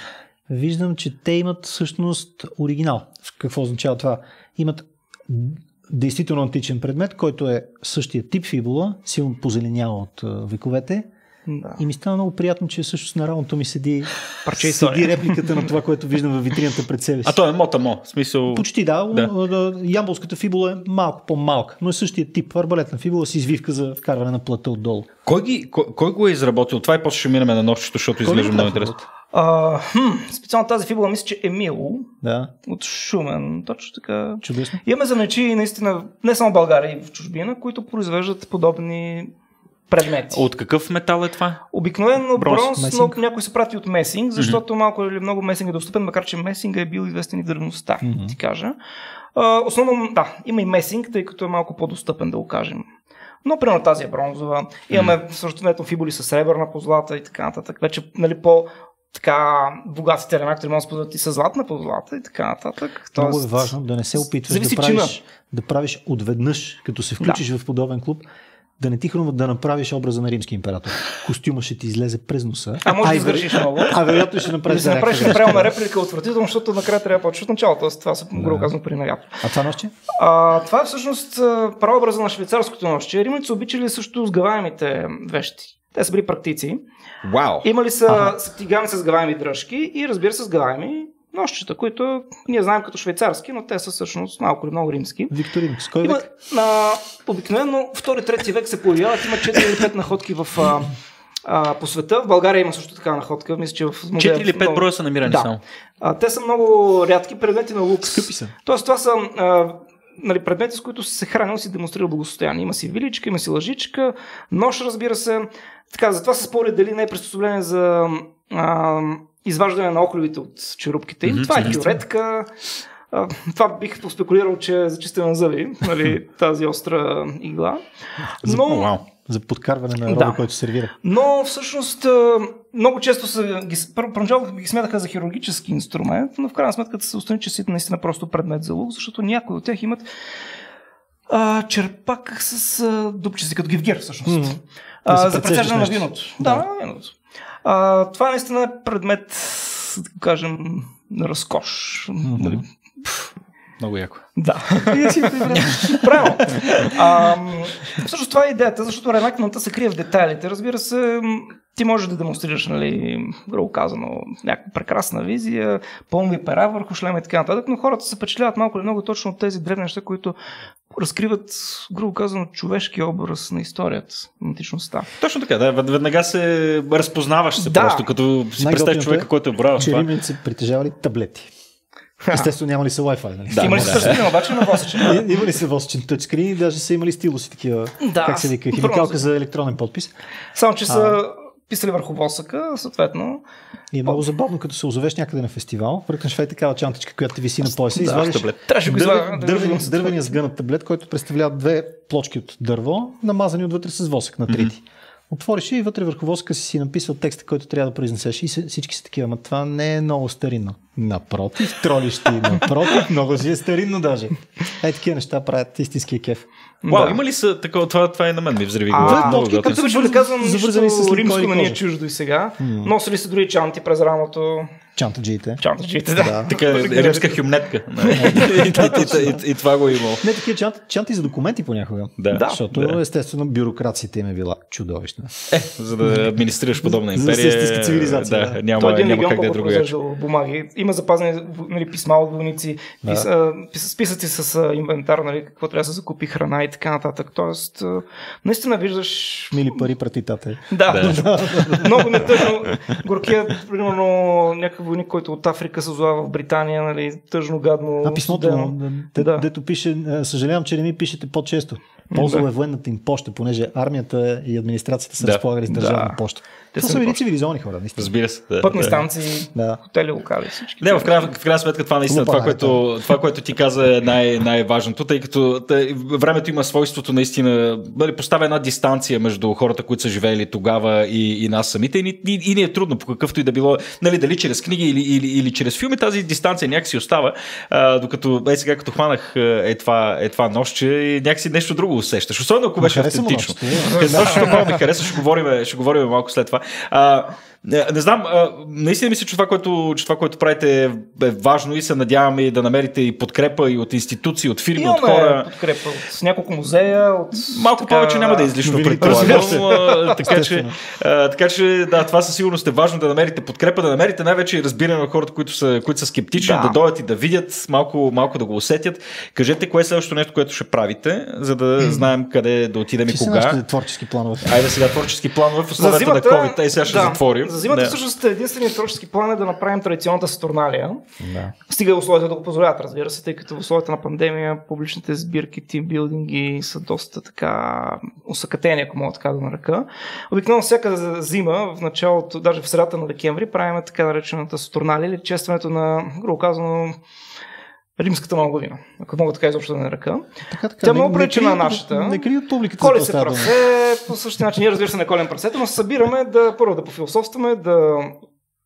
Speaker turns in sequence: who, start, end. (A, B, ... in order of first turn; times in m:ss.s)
0:00.5-0:11.1 A
0:11.5-0:11.8 B
0:11.8-0:17.4 A
0:14.4-0:15.7 B
0:17.2-0:19.3 C
0:18.5-0:25.1 A
0:25.3-0:28.9 C
0:28.2-0:29.0 A
0:29.3-0:32.1 B
0:32.2-0:32.5 A
0:32.7-0:39.3 B
0:34.4-0:34.8 A
0:39.9-0:40.4 B
0:40.3-0:41.6 C
0:41.7-0:48.8 B
0:42.4-0:43.2 A
0:48.0-0:48.4 A
0:49.4-0:52.8 B
0:53.4-1:03.7 B
1:03.2-1:08.2 A
1:04.3-1:05.1 B
1:08.8-1:15.7 A
1:12.8-1:19.4 B
1:18.4-1:18.7 A
1:19.4-1:19.9 A
1:20.1-1:26.8 B
1:27.2-1:27.7 C
1:27.6-1:35.4 B
1:28.1-1:28.3 A
1:35.3-1:36.2 A
1:36.0-1:40.9 B
1:41.4-2:02.5 B
1:44.2-1:45.6 C
1:48.1-1:48.5 A
2:01.3-2:01.8 C
2:03.1-2:07.8 B
2:08.4-2:08.9 B
2:08.4-2:10.9 A
2:08.5-2:09.0 C
2:10.1-2:10.4 B
2:11.0-2:20.0 B
2:21.3-2:32.6 B
2:24.3-2:26.7 A
2:32.2-2:32.6 A
2:33.8-2:34.3 C
2:34.4-2:50.4 B
2:35.0-2:35.8 A
2:35.6-2:36.9 C
2:50.9-2:55.1 B
2:55.2-3:00.1 C
2:57.6-2:58.1 B
2:58.6-3:01.5 A
3:02.2-3:02.5 B
3:02.3-3:04.4 A
3:03.5-3:04.2 C
3:03.6-3:05.2 B
3:05.0-3:10.1 A
3:08.0-3:09.2 B
3:10.6-3:13.4 B
3:10.9-3:11.2 A
3:13.9-3:36.4 A
3:18.0-3:20.4 B
3:18.0-3:18.6 C
3:36.8-3:37.2 B
3:36.9-3:39.8 C
3:38.9-3:44.7 B
3:39.0-3:41.8 A
3:42.6-3:42.9 A
3:45.0-3:45.6 A
3:45.6-3:47.4 B
3:46.2-3:46.5 A
3:46.4-3:50.2 C
3:48.0-3:48.9 B
3:48.2-3:49.4 A
3:50.2-3:55.4 A
3:52.2-3:53.0 C
3:52.3-3:52.7 B
3:55.5-4:00.0 C
3:56.0-3:56.3 A
3:56.8-3:58.6 A
3:58.8-4:09.8 B
4:09.5-4:12.3 A
4:10.7-4:19.4 B
4:10.9-4:11.8 C
4:18.0-4:28.1 A
4:22.1-4:22.4 B
4:25.7-4:26.2 B
4:26.7-4:27.2 B
4:28.0-4:29.0 C
4:28.6-4:31.3 B
4:29.6-4:29.8 A
4:30.8-5:05.5 C
4:32.1-4:32.9 A
4:52.8-4:54.9 A
5:04.8-5:10.2 B
5:07.5-5:23.6 C
5:08.6-5:10.8 A
5:16.4-5:16.8 B
5:23.1-5:24.7 A
5:24.4-5:28.0 C
5:25.8-5:31.0 B
5:31.2-5:31.6 A
5:31.7-5:47.0 B
5:48.0-5:50.3 B
5:50.5-5:53.6 A
5:50.8-5:52.3 B
5:52.8-5:58.2 B